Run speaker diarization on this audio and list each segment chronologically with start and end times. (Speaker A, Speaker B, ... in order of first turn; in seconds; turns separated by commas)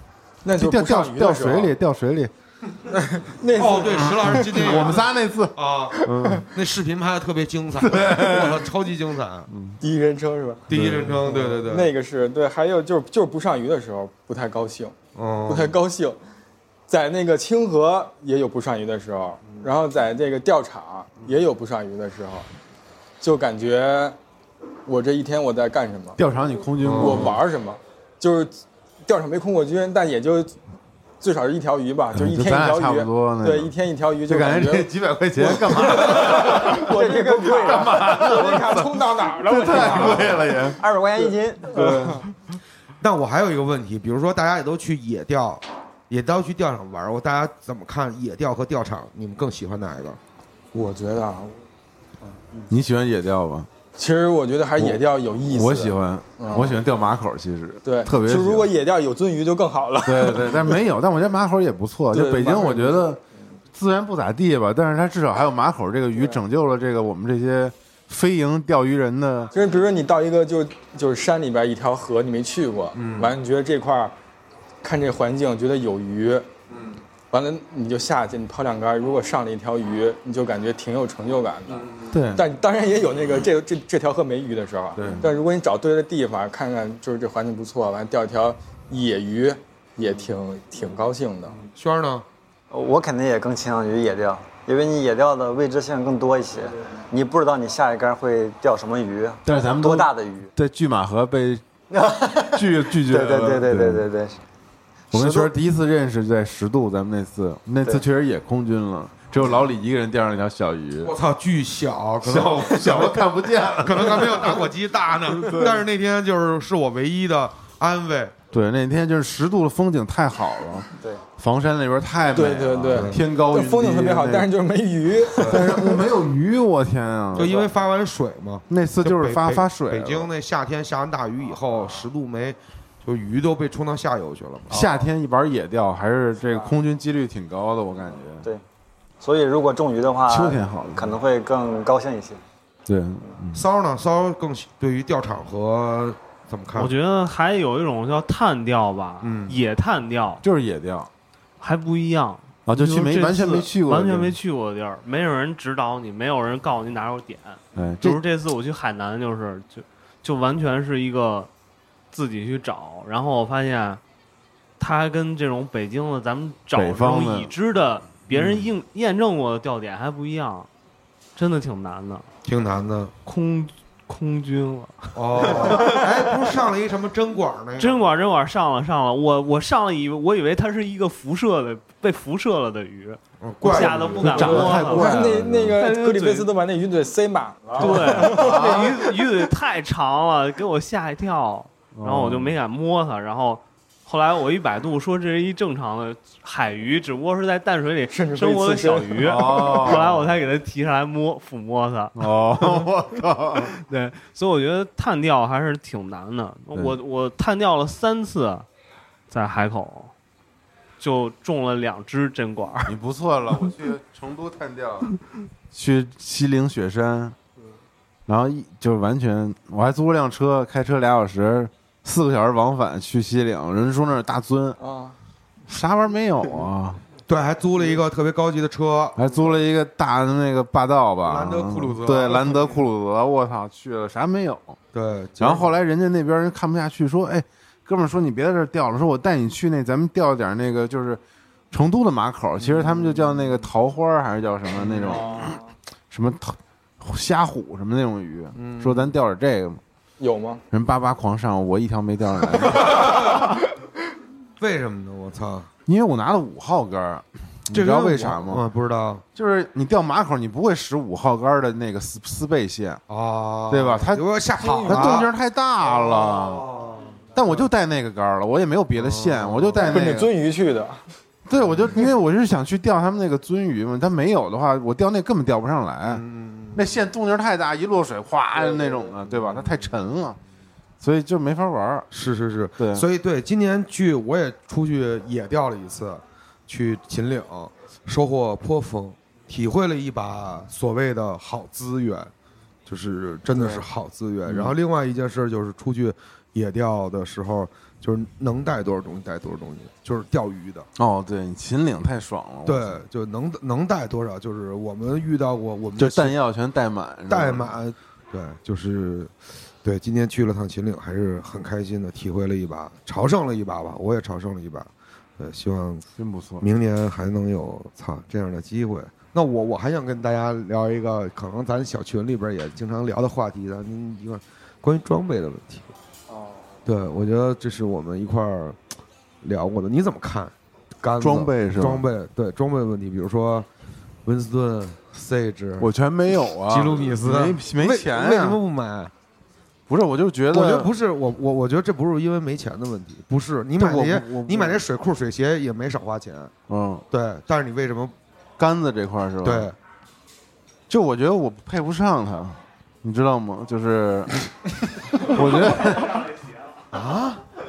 Speaker A: 0.4-1.7, Speaker B: 0.6-2.3, Speaker A: 2.9-4.8, Speaker C: 3.5-9.5, Speaker B: 4.0-6.5, Speaker A: 6.0-6.4, Speaker B: 7.8-8.6, Speaker B: 9.5-9.8, Speaker A: 9.8-10.7, Speaker C: 10.7-11.9, Speaker B: 10.7-11.2, Speaker A: 11.2-14.9, Speaker C: 15.2-15.7, Speaker A: 15.5-16.2, Speaker A: 16.9-22.5, Speaker A: 23.2-24.2, Speaker A: 24.9-26.2, Speaker B: 26.2-27.4, Speaker C: 26.8-27.4, Speaker A: 26.9-28.5, Speaker A: 29.1-30.5, Speaker A: 31.2-40.7, Speaker B: 32.1-33.7, Speaker B: 34.3-36.9, Speaker D: 36.9-38.0, Speaker B: 37.6-40.8, Speaker D: 40.8-41.9, Speaker C: 41.8-42.2, Speaker A: 41.8-42.1, Speaker C: 43.0-50.2, Speaker A: 50.7-51.5, Speaker B: 52.7-53.7, Speaker A: 54.0-56.8, Speaker B: 54.8-58.7, Speaker A: 57.8-60.8, Speaker B: 60.0-63.2, Speaker A: 62.1-63.0, Speaker B: 63.7-69.5, Speaker A: 69.5-74.1, Speaker C: 73.0-73.3, Speaker A: 74.8-76.5, Speaker C: 76.7-77.0, Speaker A: 77.3-91.6, Speaker C: 81.7-82.1, Speaker B: 82.1-82.5, Speaker C: 85.0-85.2, Speaker C: 91.7-92.2, Speaker D: 92.7-100.5, Speaker B: 99.4-101.6, Speaker D: 101.9-104.4, Speaker B: 102.5-104.0, Speaker B: 105.1-111.1, Speaker D: 105.1-105.5, Speaker C: 111.0-113.2, Speaker B: 112.2-114.7, Speaker C: 113.8-118.3, Speaker B: 115.3-115.8, Speaker B: 118.5-120.9, Speaker B: 121.4-124.5, Speaker A: 122.3-125.9, Speaker C: 122.9-123.2, Speaker C: 125.3-125.7, Speaker B: 125.4-127.5, Speaker C: 127.3-134.9, Speaker A: 127.4-127.7, Speaker B: 128.7-130.3, Speaker B: 134.7-138.4, Speaker D: 139.2-142.4, Speaker B: 140.3-141.2, Speaker B: 142.9-143.6, Speaker C: 143.5-146.9, Speaker E: 146.7-150.4, Speaker C: 149.2-149.6, Speaker B: 150.4-151.1, Speaker E: 151.6-161.5, Speaker B: 152.7-154.3, Speaker B: 157.7-158.2, Speaker E: 162.1-164.0, Speaker E: 164.8-170.7, Speaker B: 166.7-167.5, Speaker C: 168.3-168.6, Speaker E: 171.3-172.2, Speaker C: 172.4-173.1, Speaker E: 173.2-176.0, Speaker C: 175.1-178.0, Speaker E: 177.8-185.2, Speaker C: 183.4-184.8, Speaker B: 184.2-185.8, Speaker A: 184.4-189.0, Speaker E: 185.8-186.5, Speaker E: 187.8-202.9, Speaker B: 188.2-188.9, Speaker B: 191.9-192.5, Speaker A: 198.1-199.9, Speaker B: 199.2-200.2, Speaker B: 202.2-203.7, Speaker E: 203.8-208.7, Speaker E: 209.3-210.1, Speaker E: 211.0-212.9, Speaker B: 212.8-215.1, Speaker B: 215.7-217.3, Speaker B: 218.3-224.8, Speaker A: 224.8-225.2, Speaker B: 225.7-227.0, Speaker C: 227.3-229.2, Speaker B: 229.2-234.8, Speaker C: 231.2-232.8, Speaker C: 234.9-235.7, Speaker B: 235.4-241.2, Speaker B: 241.7-245.5, Speaker C: 242.6-243.5, Speaker C: 244.8-245.2, Speaker B: 246.1-249.8, Speaker C: 248.6-249.1, Speaker A: 250.2-250.6, Speaker B: 250.7-253.5, Speaker C: 254.6-255.7, Speaker B: 255.9-258.6, Speaker C: 257.7-259.2, Speaker B: 259.3-263.0, Speaker C: 263.1-265.3, Speaker B: 263.7-264.3, Speaker A: 264.6-265.2, Speaker B: 264.8-266.7, Speaker C: 265.8-267.6, Speaker B: 267.3-270.3, Speaker C: 269.0-269.9, Speaker A: 269.8-271.1, Speaker B: 271.5-276.2, Speaker C: 271.5-272.1, Speaker C: 276.1-277.0, Speaker B: 276.7-280.4, Speaker B: 281.0-282.1, Speaker C: 282.1-292.3, Speaker B: 282.8-283.0, Speaker C: 292.9-300.9, Speaker B: 293.5-293.8, Speaker B: 294.4-294.8, Speaker B: 300.9-303.0, Speaker C: 302.6-306.3, Speaker B: 306.0-307.7, Speaker C: 307.3-316.1, Speaker B: 316.2-316.6, Speaker C: 316.6-325.9, Speaker C: 326.9-328.8, Speaker C: 329.4-333.7, Speaker B: 331.2-332.1, Speaker C: 334.2-335.9, Speaker B: 335.8-338.6, Speaker C: 336.5-339.1, Speaker B: 339.9-340.9, Speaker C: 340.5-346.5, Speaker B: 343.8-344.8, Speaker B: 346.7-347.0, Speaker C: 347.1-348.1, Speaker B: 348.6-349.7, Speaker C: 349.4-349.8, Speaker B: 350.9-354.4, Speaker B: 355.1-356.3, Speaker C: 356.9-357.4